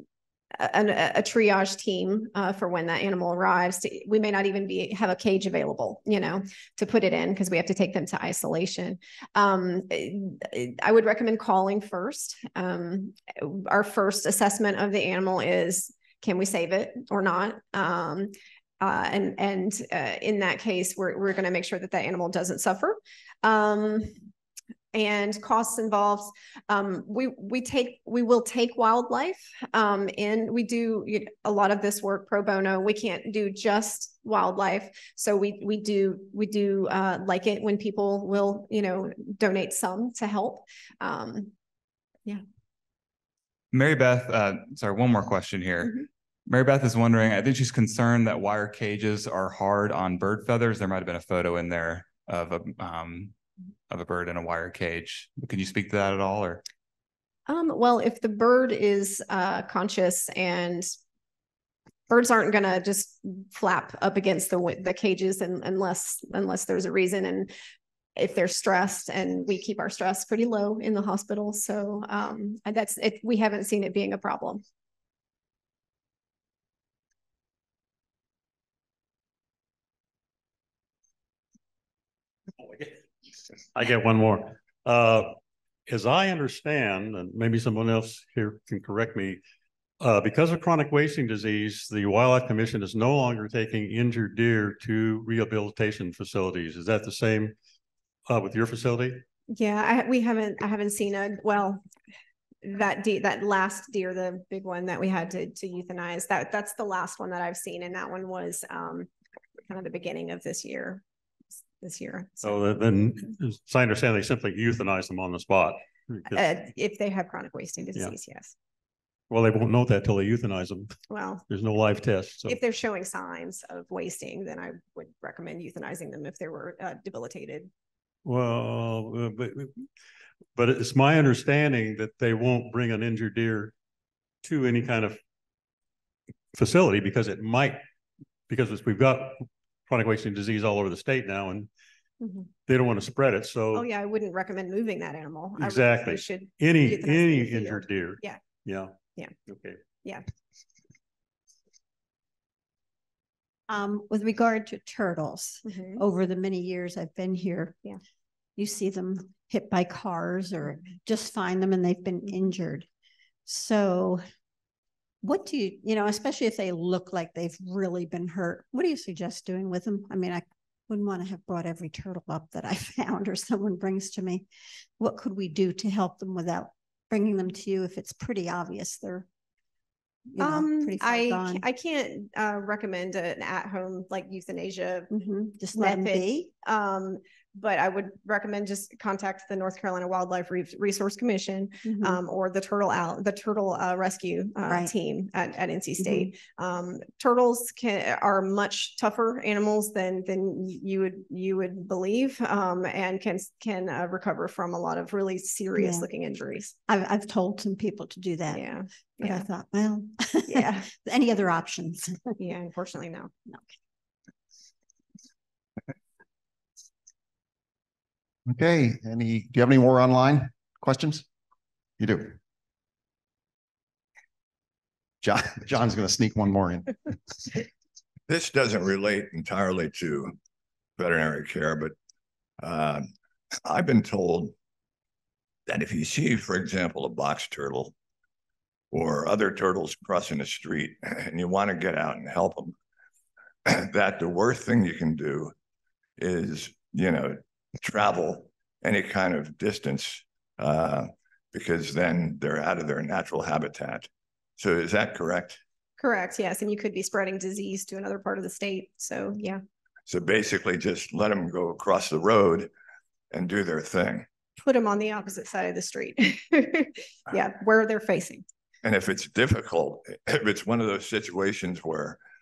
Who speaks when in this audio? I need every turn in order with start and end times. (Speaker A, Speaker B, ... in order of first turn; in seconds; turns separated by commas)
Speaker A: 0.6-24.2, Speaker A: 24.9-41.5, Speaker B: 43.7-53.3, Speaker B: 53.9-56.6, Speaker A: 57.5-60.9, Speaker A: 62.1-67.5, Speaker A: 68.2-74.6, Speaker C: 82.7-82.9, Speaker C: 83.8-85.4, Speaker C: 85.9-89.4, Speaker C: 90.0-97.5, Speaker C: 98.3-99.2, Speaker A: 99.5-101.8, Speaker A: 102.6-109.1, Speaker A: 109.7-111.0, Speaker A: 111.8-112.6, Speaker C: 112.4-116.5, Speaker A: 116.3-118.5, Speaker C: 119.3-120.9, Speaker A: 121.1-121.4, Speaker C: 121.5-122.6, Speaker A: 122.5-127.7, Speaker C: 128.2-129.9, Speaker C: 130.6-133.7, Speaker C: 134.4-135.2, Speaker C: 136.6-137.8, Speaker C: 138.5-141.7, Speaker A: 142.2-142.5, Speaker C: 142.7-143.9, Speaker A: 143.7-148.4, Speaker C: 145.6-148.9, Speaker C: 149.5-149.8, Speaker D: 153.7-157.8, Speaker A: 155.7-156.0, Speaker D: 158.6-162.9, Speaker D: 163.5-164.2, Speaker D: 165.2-174.5, Speaker D: 175.0-179.3, Speaker D: 180.3-181.7, Speaker A: 180.4-185.1, Speaker D: 185.1-186.5, Speaker A: 185.7-206.7, Speaker D: 191.8-192.2, Speaker D: 194.6-194.9, Speaker D: 196.0-196.3, Speaker D: 205.8-206.1, Speaker D: 206.9-212.4, Speaker A: 208.5-209.4, Speaker A: 210.5-210.9, Speaker A: 212.4-213.3, Speaker E: 218.5-221.3, Speaker E: 222.0-222.4, Speaker E: 225.2-227.2, Speaker F: 228.3-230.4, Speaker F: 231.0-231.9, Speaker F: 232.6-233.1, Speaker F: 233.7-234.6, Speaker F: 235.7-237.9, Speaker F: 238.9-242.8, Speaker F: 243.7-245.5, Speaker F: 246.2-255.6, Speaker A: 256.0-259.6, Speaker F: 260.1-262.7, Speaker F: 263.3-264.3, Speaker A: 264.6-268.4, Speaker F: 268.8-272.2